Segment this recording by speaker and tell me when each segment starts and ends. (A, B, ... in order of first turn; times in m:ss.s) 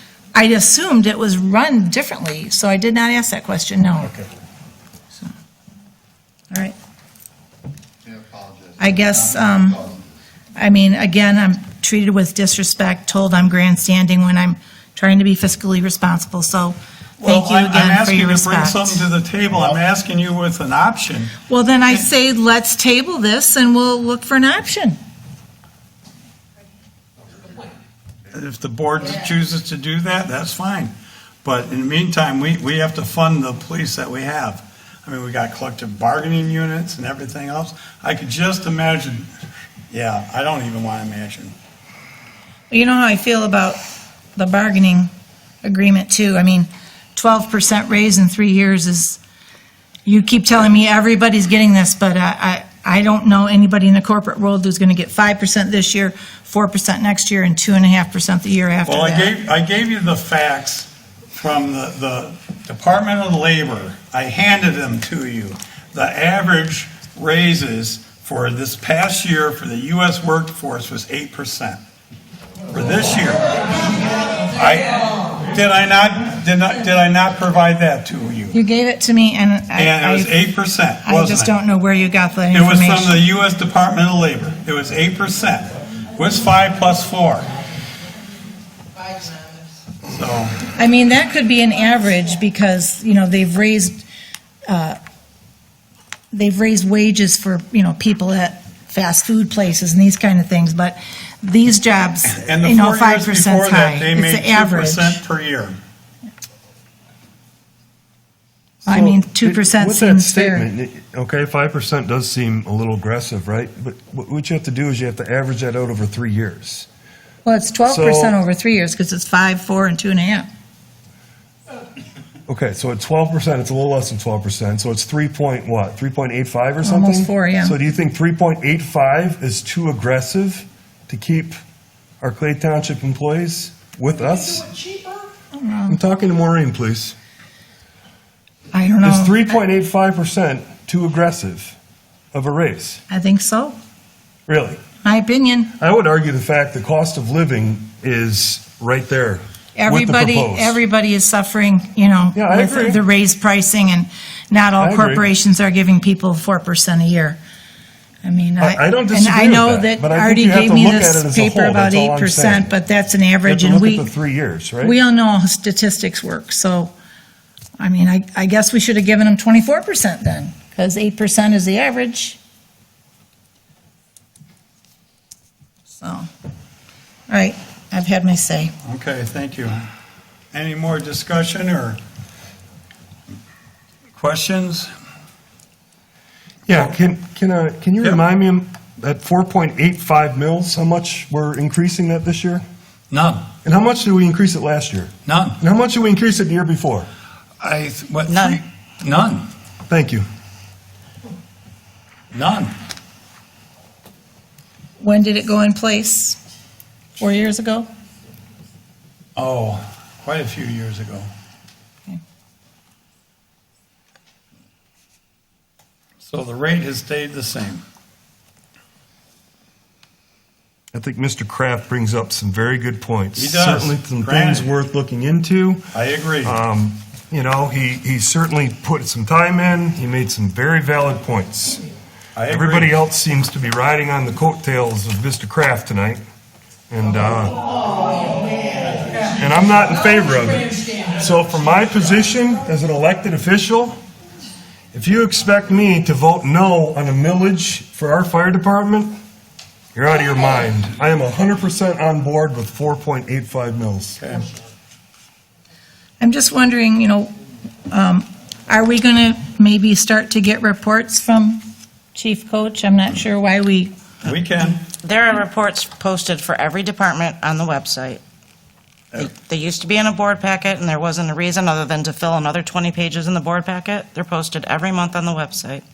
0:00.3-0:04.2 A
0:08.0-0:10.0 B
0:08.8-0:09.8 A
0:10.6-0:19.1 A
0:17.2-0:21.4 C
0:21.5-0:25.0 A
0:28.3-0:30.9 C
0:31.4-0:39.3 C
0:39.9-0:41.6 C
0:42.7-0:43.8 A
0:44.4-0:45.1 A
0:45.6-0:49.2 A
0:50.1-0:59.3 A
0:58.9-1:11.8 C
1:12.7-1:13.5 C
1:14.5-1:18.6 C
1:18.5-1:20.3 A
1:19.8-1:21.6 C
1:21.0-1:23.2 A
1:22.5-1:27.5 C
1:30.0-1:30.7 C
1:30.8-1:34.0 A
1:34.7-1:35.0 A
1:36.3-1:45.2 A
1:42.2-1:45.8 C
1:48.8-1:50.7 A
1:48.9-1:56.9 D
1:57.4-2:00.5 A
1:57.8-1:58.4 D
2:02.5-2:11.6 D
2:06.8-2:07.8 A
2:12.2-2:15.0 D
2:15.5-2:16.0 A
2:15.9-2:17.2 D
2:18.7-2:19.4 A
2:19.0-2:21.8 D
2:22.3-2:23.0 D
2:23.1-2:23.8 A
2:24.5-2:24.8 D
2:25.0-2:25.7 A
2:25.8-2:30.8 D
2:29.8-2:37.4 A
2:32.4-2:33.0 D
2:34.8-2:35.3 D
2:38.2-2:44.1 A
2:38.6-2:42.7 D
2:43.4-2:45.0 D
2:44.8-2:46.9 A
2:47.8-2:52.4 A
2:55.9-2:56.3 A
2:57.3-2:58.7 A
2:58.8-2:59.9 C
3:00.5-3:02.0 C
3:04.2-3:04.9 C
3:06.7-3:12.6 D
3:13.1-3:13.5 C
3:13.6-3:17.1 D
3:15.3-3:15.6 C
3:17.6-3:19.5 C
3:18.3-3:18.6 E
3:19.9-3:20.3 D
3:22.3-3:22.7 C
3:25.0-3:26.4 A
3:27.2-3:27.9 A
3:29.4-3:31.3 C
3:36.2-3:37.8 C
3:40.9-3:51.8 D
3:43.4-3:44.7 C
3:45.9-3:46.6 C
3:52.4-3:53.0 C
3:52.5-3:56.2 D
3:56.9-3:57.6 D
3:59.2-4:04.0 D
4:04.9-4:09.2 D
4:09.9-4:14.2 D
4:14.2-4:14.5 C
4:16.2-4:17.3 A
4:17.9-4:21.6 A
4:22.2-4:23.9 A
4:24.2-4:24.8 C
4:25.0-4:28.2 E
4:29.1-4:35.8 E